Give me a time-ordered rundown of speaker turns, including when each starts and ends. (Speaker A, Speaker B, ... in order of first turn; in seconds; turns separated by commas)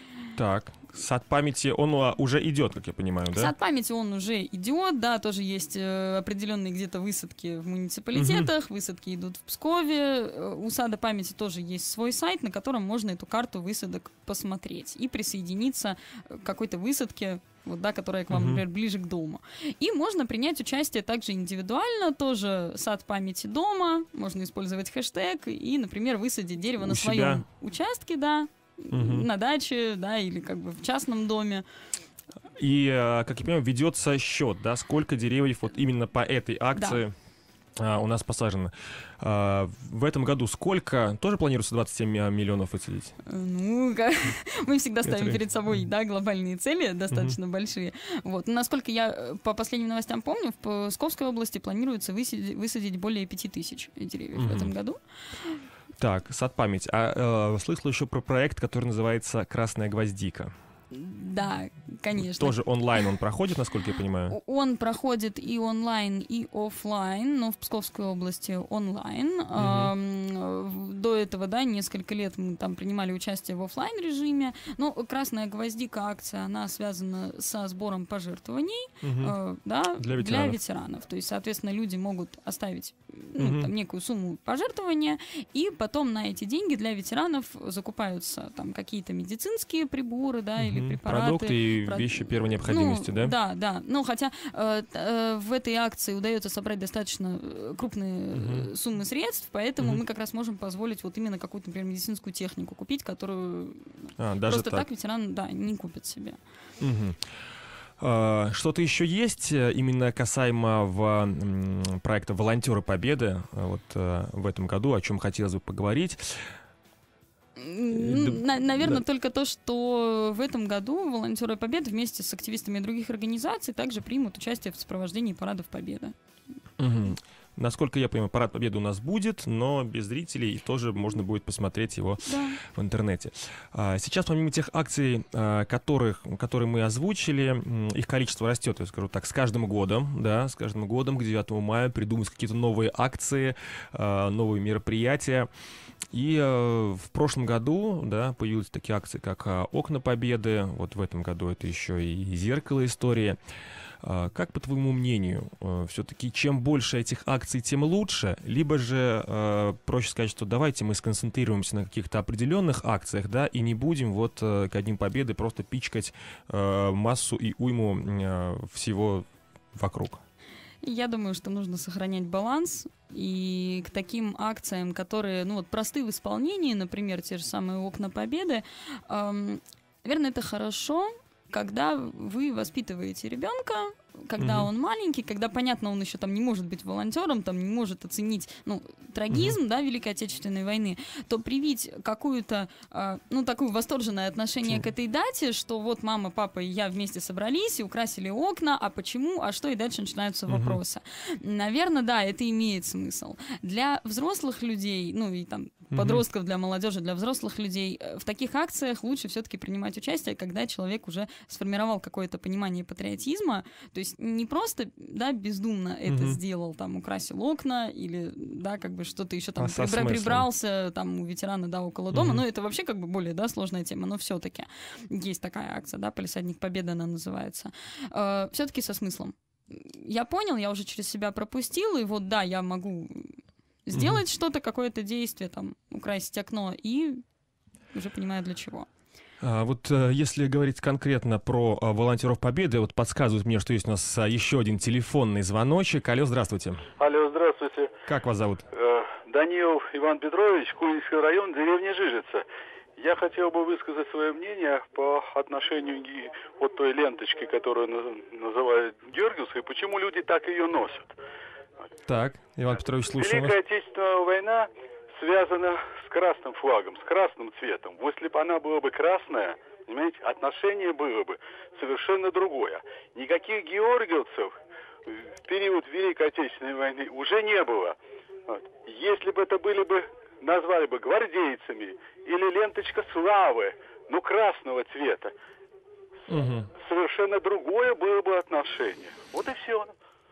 Speaker A: 0.4-3.5, Speaker B: 3.3-31.6, Speaker A: 8.1-8.5, Speaker A: 18.3-18.6, Speaker A: 26.8-27.4, Speaker A: 28.9-29.3, Speaker A: 32.6-37.1, Speaker B: 36.8-37.0, Speaker A: 37.8-43.1, Speaker B: 43.3-55.5, Speaker A: 45.0-45.4, Speaker A: 54.4-54.7, Speaker A: 56.0-60.5, Speaker B: 60.9-62.6, Speaker A: 62.2-64.4, Speaker B: 64.3-103.9, Speaker A: 69.6-69.9, Speaker A: 79.0-79.3, Speaker A: 80.0-80.6, Speaker A: 83.4-83.7, Speaker A: 90.6-93.3, Speaker A: 98.3-98.7, Speaker A: 104.2-104.8, Speaker B: 104.5-106.4, Speaker A: 106.8-107.2, Speaker A: 108.0-116.5, Speaker B: 117.6-126.1, Speaker A: 117.9-119.0, Speaker A: 126.8-145.5, Speaker B: 132.2-132.6, Speaker A: 146.1-153.4, Speaker A: 154.0-170.2, Speaker B: 170.8-237.2, Speaker A: 184.4-184.7, Speaker A: 189.3-189.6, Speaker A: 200.5-200.8, Speaker A: 205.9-206.2, Speaker A: 216.1-216.4, Speaker A: 219.6-220.5, Speaker A: 222.1-222.4, Speaker A: 233.9-234.2, Speaker B: 237.9-238.9, Speaker A: 239.4-246.9, Speaker C: 247.0-247.9, Speaker A: 248.1-248.7, Speaker C: 248.7-252.4, Speaker C: 253.0-261.1, Speaker A: 262.1-263.6, Speaker C: 263.2-274.5, Speaker C: 275.1-278.0, Speaker C: 278.5-285.3, Speaker A: 286.3-286.7, Speaker C: 286.8-289.9